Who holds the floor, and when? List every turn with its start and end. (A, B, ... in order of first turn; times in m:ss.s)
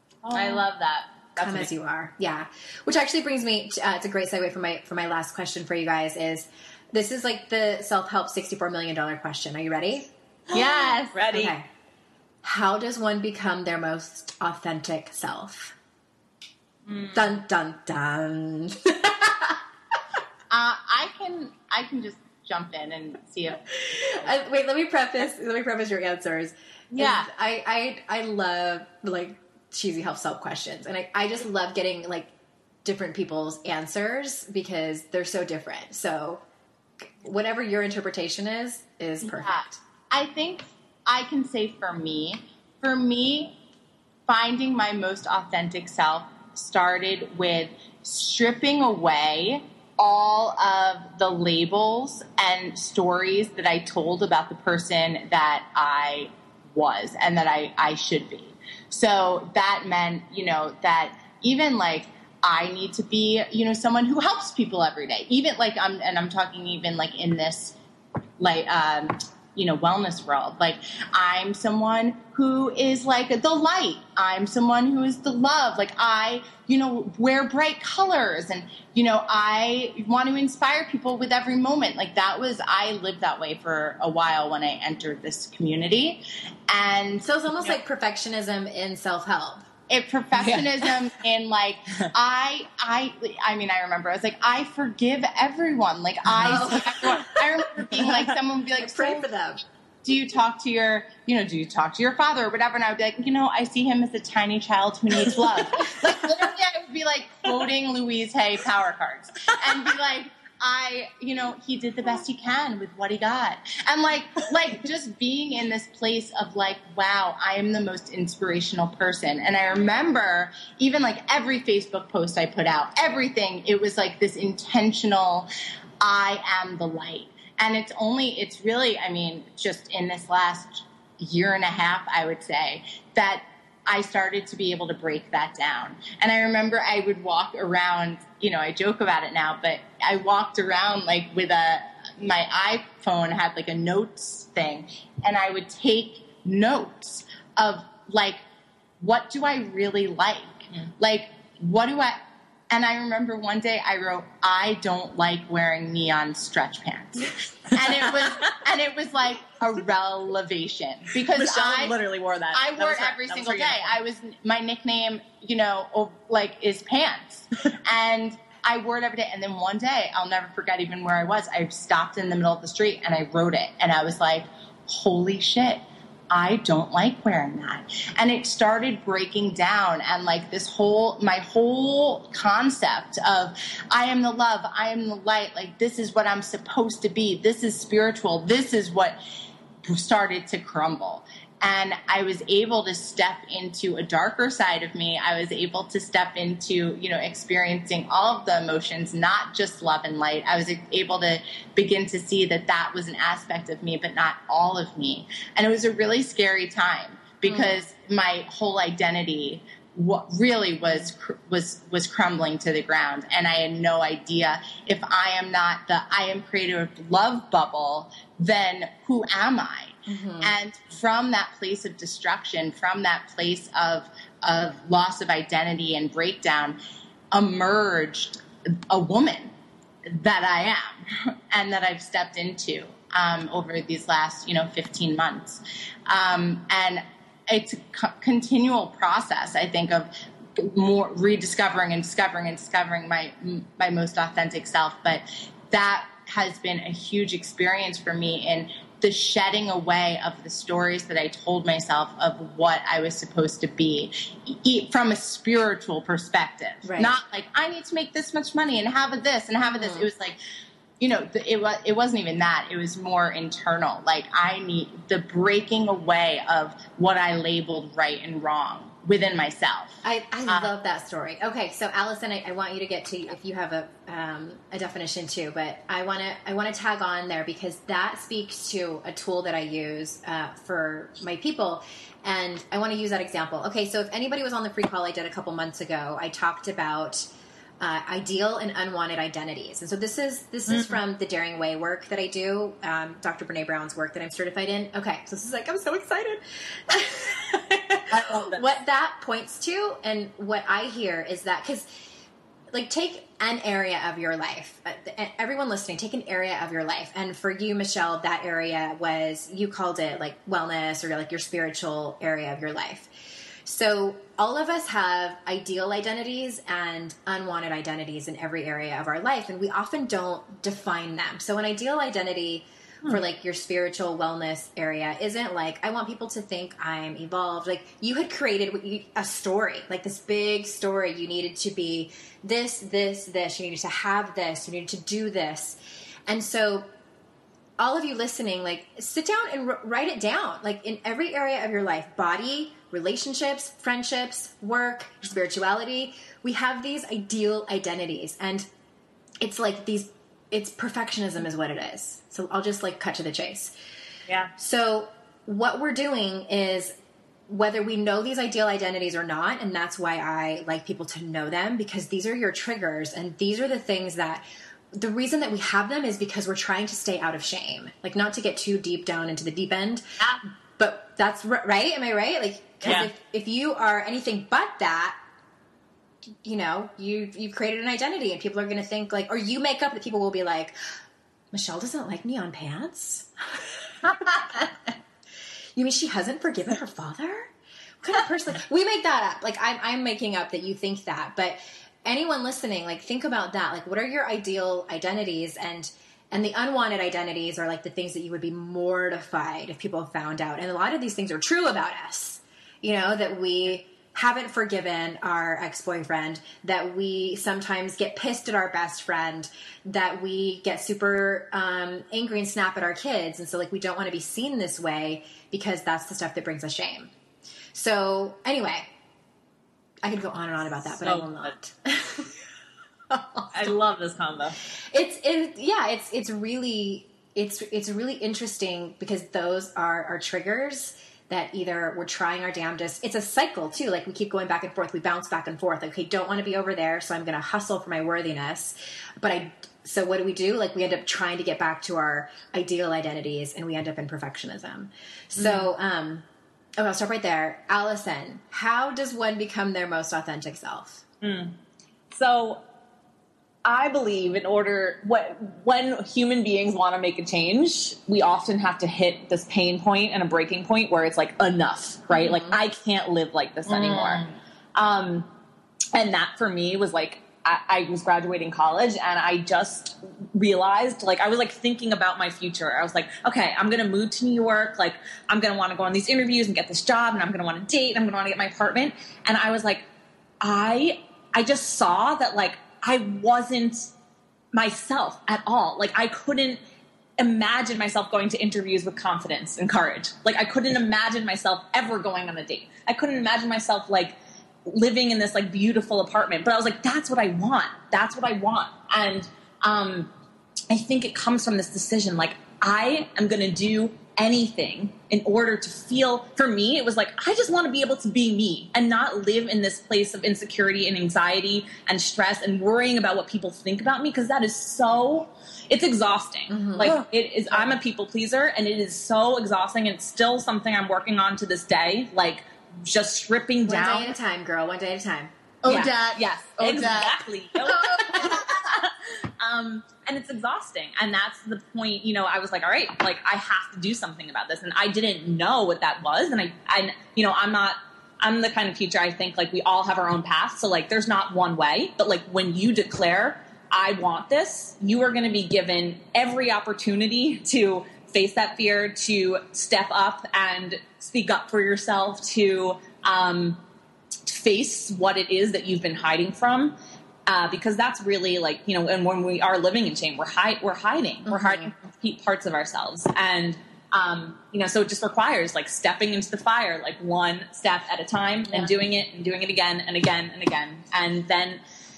0:00.2-0:01.7 A
0:00.3-0:00.6 B
0:00.4-0:00.7 C
0:01.4-0:10.1 B
0:10.5-0:11.2 C
0:10.5-0:11.5 A
0:11.3-0:11.7 B
0:12.4-0:15.7 B
0:17.1-0:19.6 B
0:20.5-0:23.6 C
0:23.7-0:32.3 B
0:27.0-0:27.2 C
0:32.8-0:36.4 B
0:37.0-0:39.8 B
0:39.3-0:43.6 C
0:44.3-1:07.7 C
1:08.4-1:27.3 C
1:27.2-1:29.6 B
1:29.9-1:39.3 C
1:30.4-1:30.7 A
1:36.4-1:36.7 A
1:36.4-1:37.4 B
1:38.8-1:39.6 B
1:40.0-2:05.5 C
2:06.0-2:28.4 C
2:29.0-2:42.0 C
2:41.3-2:44.0 A
2:42.5-3:09.2 C
3:09.8-3:46.8 C
3:27.5-3:27.8 B
3:40.1-3:40.5 B
3:47.3-3:49.5 C
3:50.0-4:20.4 C
4:16.8-4:17.2 B
4:19.7-4:20.1 B
4:21.0-4:30.7 C
4:30.0-4:47.3 B
4:47.8-5:01.9 B
4:50.7-4:51.0 A
4:58.1-4:58.6 A
5:02.7-5:13.1 B
5:13.6-5:35.8 B
5:36.3-5:36.9 B
5:37.8-5:48.7 B
5:49.4-5:53.7 B
5:54.6-5:56.9 B
5:57.5-6:10.0 B
6:10.8-6:15.2 B
6:12.8-6:13.1 A
6:16.4-6:20.8 B
6:21.5-6:24.3 B
6:25.8-6:27.5 B
6:28.0-6:57.1 B
6:57.7-6:58.9 B
7:00.0-7:02.3 B
7:01.0-7:01.5 A
7:03.1-7:03.7 B
7:03.5-7:04.6 A
7:04.9-7:26.2 B
7:25.4-7:25.7 A
7:26.8-7:31.0 B
7:31.2-7:31.5 A
7:32.1-7:32.6 A
7:33.6-7:44.2 A
7:42.1-7:42.5 B
7:43.7-7:44.3 C
7:44.7-7:45.3 A
7:45.9-7:59.8 A
8:00.4-8:03.9 A
8:04.5-8:06.6 A
8:07.2-8:20.1 A
8:20.7-8:44.1 A
8:36.5-8:37.0 B
8:43.6-8:45.3 B
8:45.6-8:48.5 C
8:45.6-9:13.6 A
8:48.0-8:48.4 B
9:14.2-9:16.8 A
9:17.3-9:31.6 A
9:21.3-9:21.7 B